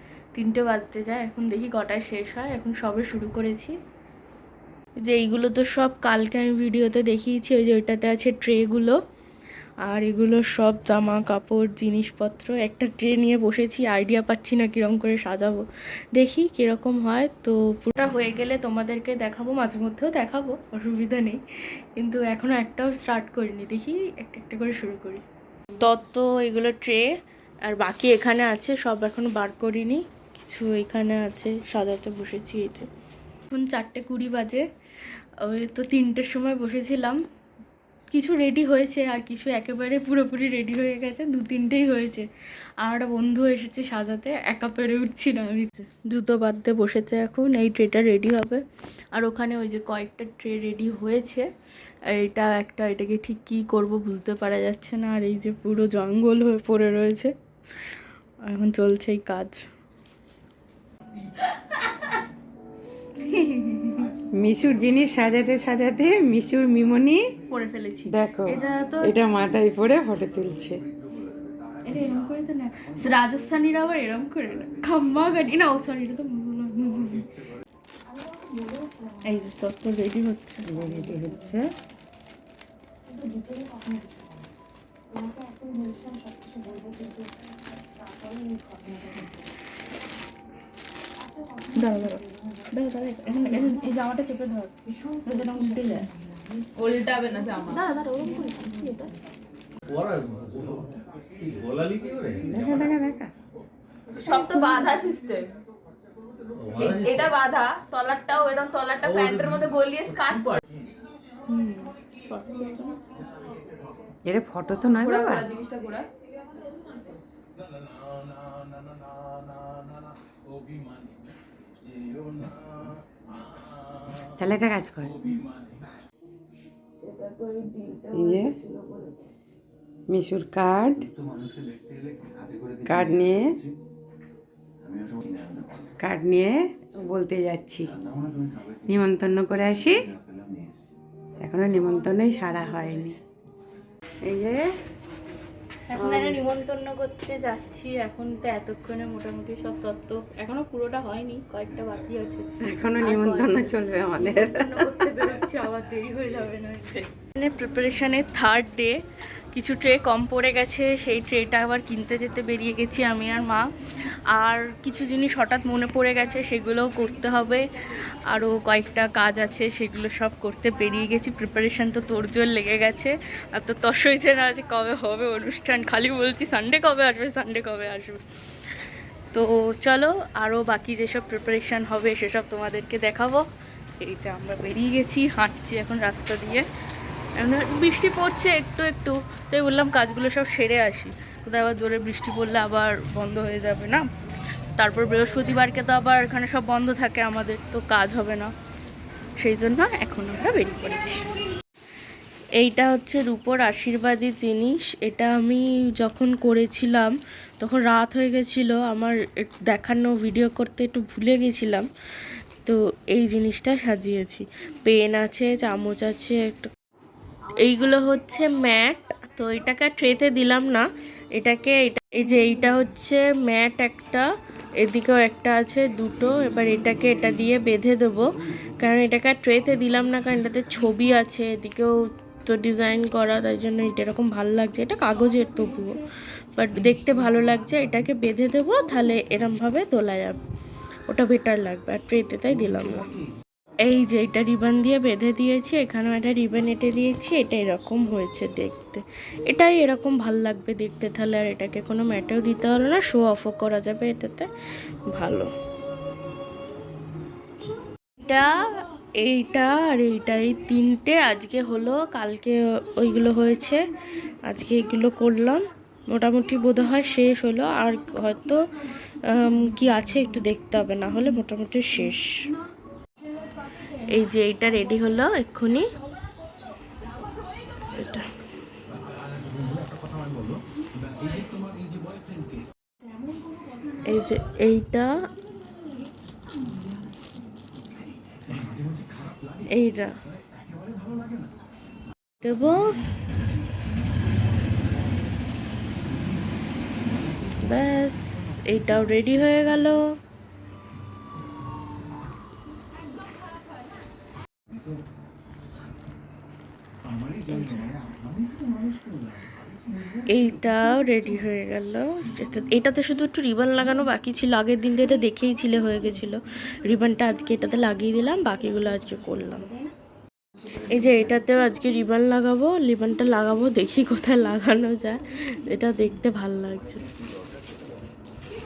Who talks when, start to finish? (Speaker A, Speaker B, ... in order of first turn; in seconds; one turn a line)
Speaker A: 0.3-3.8
Speaker A: 5.0-9.0
Speaker A: 9.8-15.6
Speaker A: 16.1-21.4
Speaker A: 22.0-25.2
Speaker A: 25.8-27.1
Speaker A: 27.6-32.9
Speaker A: 33.5-34.6
Speaker A: 35.4-37.2
Speaker A: 38.1-42.3
Speaker A: 42.8-48.6
Speaker A: 49.1-51.5
Speaker A: 52.1-57.3
Speaker A: 58.5-59.6
Speaker A: 61.4-62.0
Speaker A: 63.2-64.1
Speaker B: 64.4-67.2
Speaker A: 67.5-69.1
Speaker B: 68.1-70.8
Speaker A: 71.9-77.3
Speaker A: 79.2-80.7
Speaker B: 80.7-81.7
Speaker A: 91.7-94.7
Speaker A: 95.2-96.1
Speaker A: 96.8-99.1
Speaker C: 97.0-97.8
Speaker D: 99.9-102.6
Speaker B: 102.5-103.3
Speaker A: 104.2-105.4
Speaker C: 104.3-104.9
Speaker D: 106.6-107.0
Speaker C: 106.8-107.3
Speaker A: 106.8-109.1
Speaker C: 108.8-110.5
Speaker A: 109.8-110.3
Speaker A: 111.5-113.0
Speaker B: 114.3-115.5
Speaker C: 115.0-116.0
Speaker A: 115.2-115.8
Speaker B: 124.4-125.2
Speaker A: 127.1-128.1
Speaker B: 128.1-128.6
Speaker B: 130.1-131.1
Speaker B: 132.8-133.5
Speaker B: 136.0-137.9
Speaker B: 138.9-140.0
Speaker B: 141.4-143.2
Speaker A: 142.2-143.0
Speaker B: 144.3-144.7
Speaker A: 145.9-158.9
Speaker B: 146.0-146.4
Speaker B: 152.7-154.8
Speaker A: 159.5-163.7
Speaker A: 164.3-167.7
Speaker A: 168.3-178.2
Speaker A: 179.3-183.4
Speaker A: 184.0-186.7
Speaker A: 187.4-194.1
Speaker A: 194.8-198.5
Speaker A: 199.4-201.2
Speaker A: 202.6-211.9
Speaker A: 212.6-216.7
Speaker A: 217.6-224.2
Speaker A: 224.8-228.3
Speaker A: 228.8-231.9
Speaker A: 232.5-236.0
Speaker A: 236.6-240.4
Speaker A: 241.1-243.1
Speaker A: 243.9-254.5
Speaker A: 255.1-255.5
Speaker A: 258.2-258.5
Speaker A: 259.2-263.8
Speaker A: 264.5-268.6
Speaker A: 269.3-272.3
Speaker A: 274.1-275.9
Speaker A: 278.0-278.3
Speaker A: 284.1-285.1
Speaker A: 289.7-290.1
Speaker A: 292.4-292.9
Speaker A: 297.6-300.0
Speaker A: 307.5-307.9
Speaker A: 310.3-319.7
Speaker A: 320.9-327.0